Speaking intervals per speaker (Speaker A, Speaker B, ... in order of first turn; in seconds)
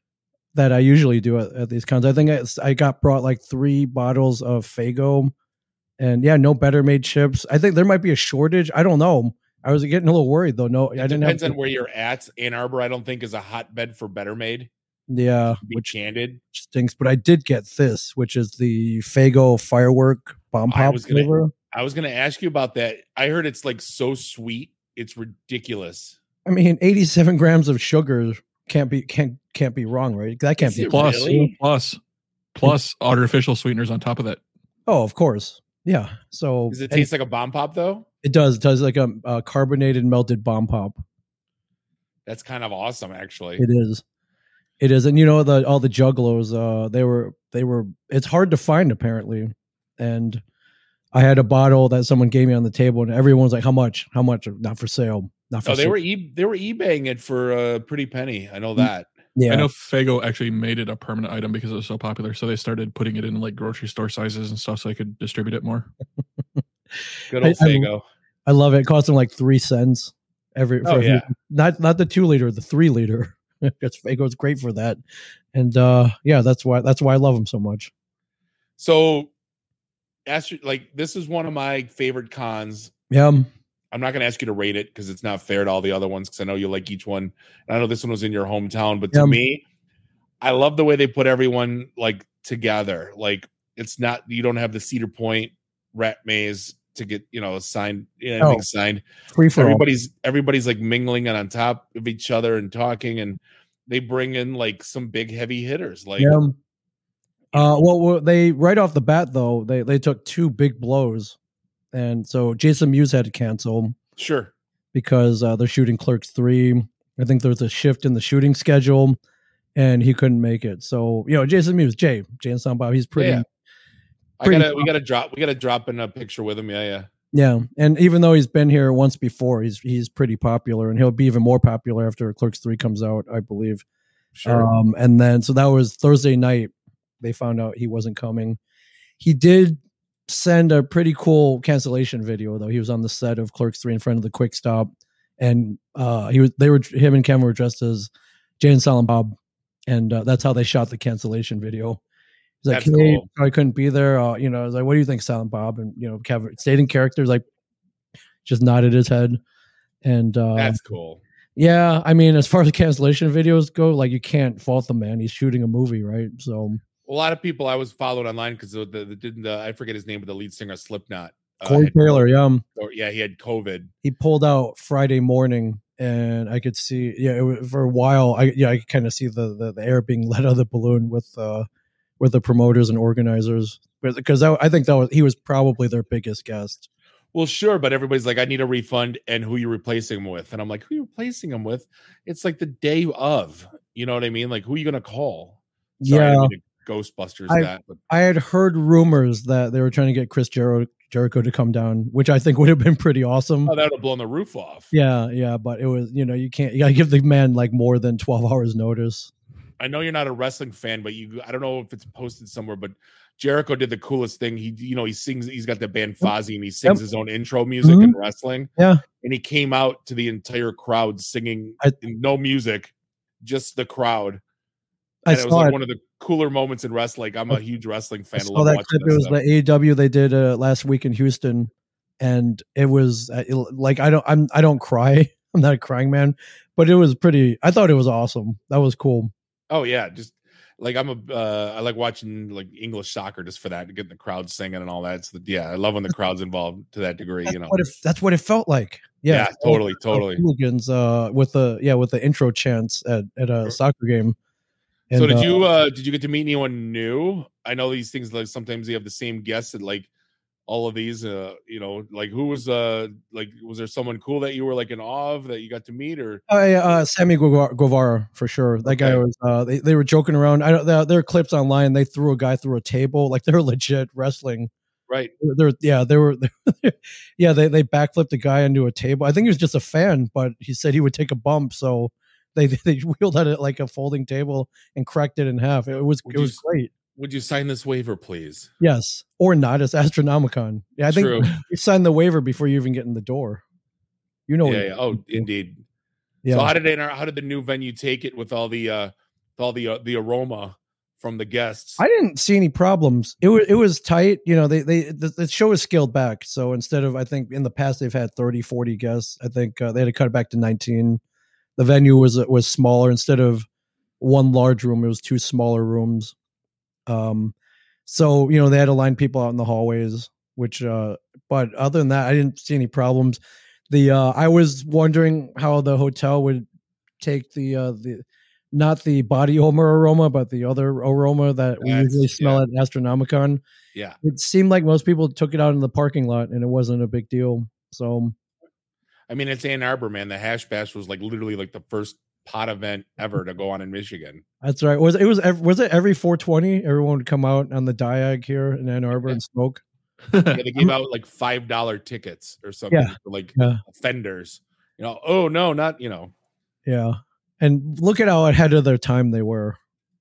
Speaker A: 0.5-5.3, 6.0-11.5, 15.1-15.9, 16.5-21.5, 26.4-31.5, 34.9-37.1, 38.2-41.0, 43.6-44.0, 44.8-50.4, 51.1-56.0, 58.8-59.7, 67.4-67.9, 68.5-75.0, 75.5-77.9, 83.1-83.5, 89.1-89.4, 98.4-98.6, 99.3-99.8, 106.2-106.5, 107.5-111.3, 111.9-114.0, 114.9-119.2, 119.7-123.4, 124.4-124.9, 127.3-133.8, 134.4-138.6, 139.2-149.3, 149.9-152.0, 152.6-157.4, 158.4-159.4, 160.0-160.8, 161.6-166.8, 171.6-172.6, 174.0-181.7, 182.2-186.9, 196.0-196.5, 197.5-203.7, 204.9-209.3, 217.8-218.2, 218.8-219.0, 225.2-225.8, 228.3-239.3, 247.5-254.3, 255.1-255.5, 266.5-274.7, 275.4-286.9, 288.8-293.6, 294.5-295.5, 296.4-296.7, 302.0-311.2, 311.8-313.6, 314.2-316.3, 317.1-317.5, 318.1-323.4, 323.9-326.6, 327.2-333.6, 334.2-338.3, 344.6-349.8, 352.9-353.8, 356.9-359.8
Speaker B: 11.0-14.7, 15.6-16.4, 20.7-26.2, 30.6-31.5, 36.7-38.0, 42.2-43.6, 55.6-59.1, 67.3-68.0, 70.8-71.3, 78.8-79.3, 80.3-82.9, 83.9-89.6, 90.4-99.0, 99.5-106.4, 114.2-114.5, 123.2-123.4, 124.4-127.1, 134.3-134.7, 152.7-153.3, 160.5-161.2, 167.1-172.2, 172.8-173.9, 187.3-198.0, 203.7-204.9, 209.8-224.4, 225.3-229.4, 239.7-247.8, 249.3-250.4, 255.1-260.1, 260.7-266.4, 268.8-269.2, 275.1-275.3, 286.2-286.6, 287.1-288.7, 291.1-291.5, 294.6-295.8, 296.5-302.0, 331.8-332.6, 339.3-344.4, 349.1-349.4, 350.5-356.3
Speaker C: 30.9-32.0, 32.5-34.4, 59.5-65.9